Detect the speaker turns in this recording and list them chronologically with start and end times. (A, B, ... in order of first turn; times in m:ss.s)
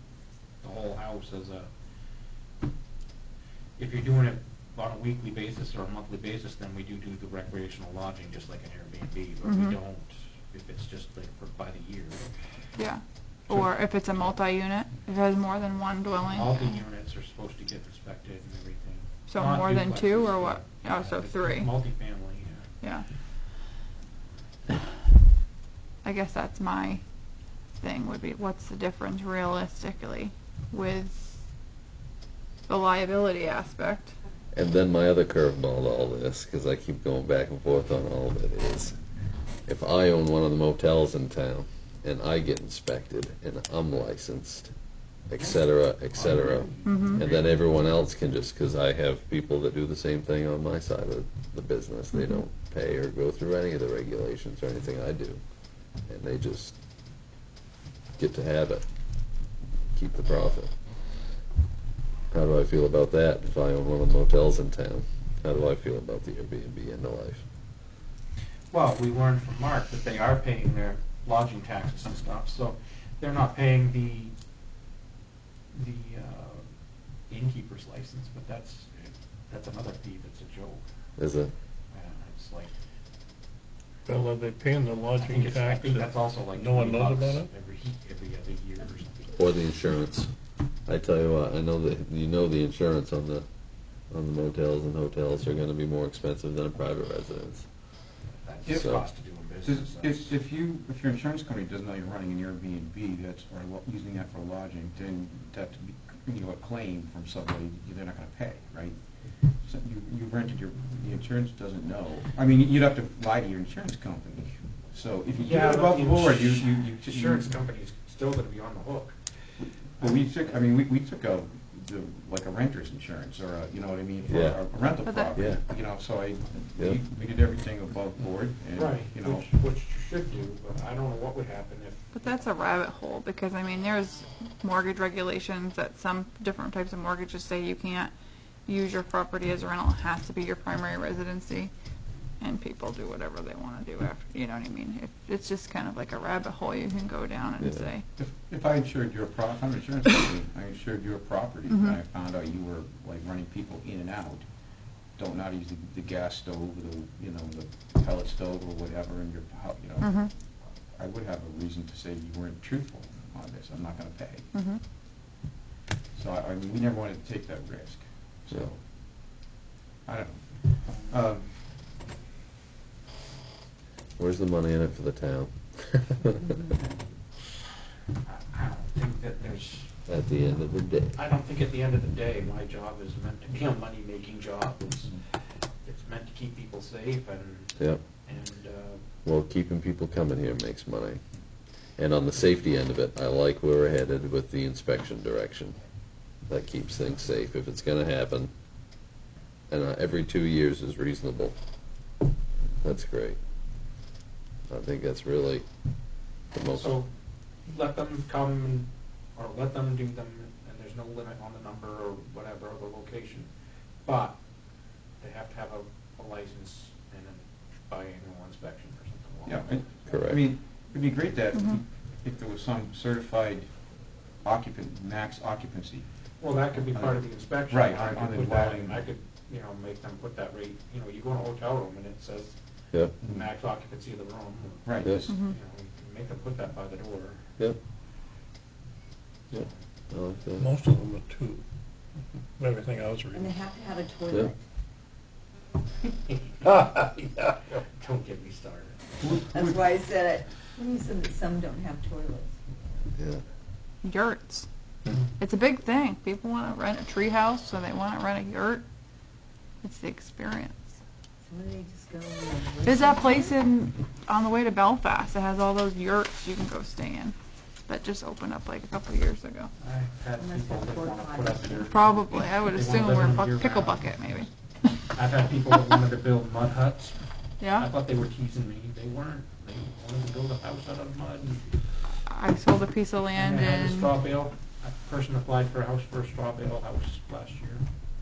0:00.6-0:01.7 A
0:03.8-0:12.3 A
0:09.4-0:09.8 B
0:12.8-0:16.8 B
0:16.3-0:22.6 A
0:19.3-0:21.7 B
0:26.0-0:27.0 B
0:27.8-0:31.4 B
0:32.7-0:34.1 B
0:34.5-0:39.0 C
0:39.7-0:44.7 C
0:45.3-0:55.4 C
0:45.4-0:47.8 A
0:46.8-0:47.2 B
0:52.1-0:52.4 B
0:56.1-0:56.7 C
0:58.2-0:58.8 C
0:59.9-1:00.7 C
1:02.3-1:07.4 C
1:08.7-1:14.3 A
1:15.7-1:16.7 A
1:17.3-1:20.8 A
1:21.2-1:21.5 C
1:21.9-1:22.7 A
1:24.0-1:27.5 D
1:25.2-1:29.3 A
1:29.3-1:30.3 C
1:30.9-1:33.4 C
1:34.1-1:37.7 C
1:38.4-1:40.3 A
1:38.6-1:38.9 E
1:38.8-1:39.1 C
1:39.6-1:49.0 E
1:49.6-1:57.5 E
1:55.4-1:59.2 A
1:59.6-2:09.5 E
2:00.0-2:00.6 A
2:04.3-2:04.6 C
2:05.0-2:05.3 B
2:05.4-2:05.6 C
2:08.7-2:12.2 A
2:12.1-2:18.1 B
2:18.6-2:21.7 B
2:22.4-2:28.0 B
2:27.6-2:27.9 C
2:28.2-2:34.4 E
2:31.7-2:32.0 B
2:35.2-2:40.3 E
2:40.0-2:40.3 B
2:40.9-2:44.5 E
2:44.5-2:44.8 B
2:46.1-2:48.8 E
2:50.0-2:51.5 E
2:54.2-2:56.4 C
2:56.4-2:56.9 F
2:58.2-3:00.0 A
3:00.1-3:01.2 C
3:01.1-3:09.0 A
3:07.8-3:08.0 C
3:09.2-3:11.2 C
3:12.0-3:15.8 C
3:16.4-3:18.5 C
3:19.7-3:21.6 C
3:22.8-3:23.4 C
3:24.7-3:25.6 C
3:26.5-3:27.0 C
3:26.7-3:27.1 A
3:27.6-3:33.5 A
3:34.0-3:34.4 A
3:35.2-3:39.7 A
3:39.4-3:43.7 E
3:40.0-3:40.4 C
3:41.5-3:41.8 B
3:44.4-3:46.0 E
3:46.4-3:52.6 A
3:46.9-3:49.0 E
3:53.2-3:57.4 A
3:54.8-3:55.4 E
3:55.3-3:55.5 B
3:59.5-4:00.8 C
4:00.6-4:01.6 D
4:02.6-4:03.6 D
4:03.3-4:04.6 F
4:06.1-4:09.3 A
4:09.2-4:09.9 E
4:09.5-4:12.6 F
4:13.2-4:13.4 C
4:14.0-4:14.7 B
4:15.2-4:18.8 B
4:19.8-4:20.9 B
4:21.4-4:23.6 F
4:22.8-4:27.3 B
4:27.9-4:29.7 B
4:29.8-4:34.4 A
4:30.4-4:32.0 F
4:31.8-4:34.5 B
4:35.1-4:37.2 A
4:37.6-4:37.9 B
4:37.8-4:41.7 A
4:42.3-4:44.1 B
4:43.3-4:47.8 A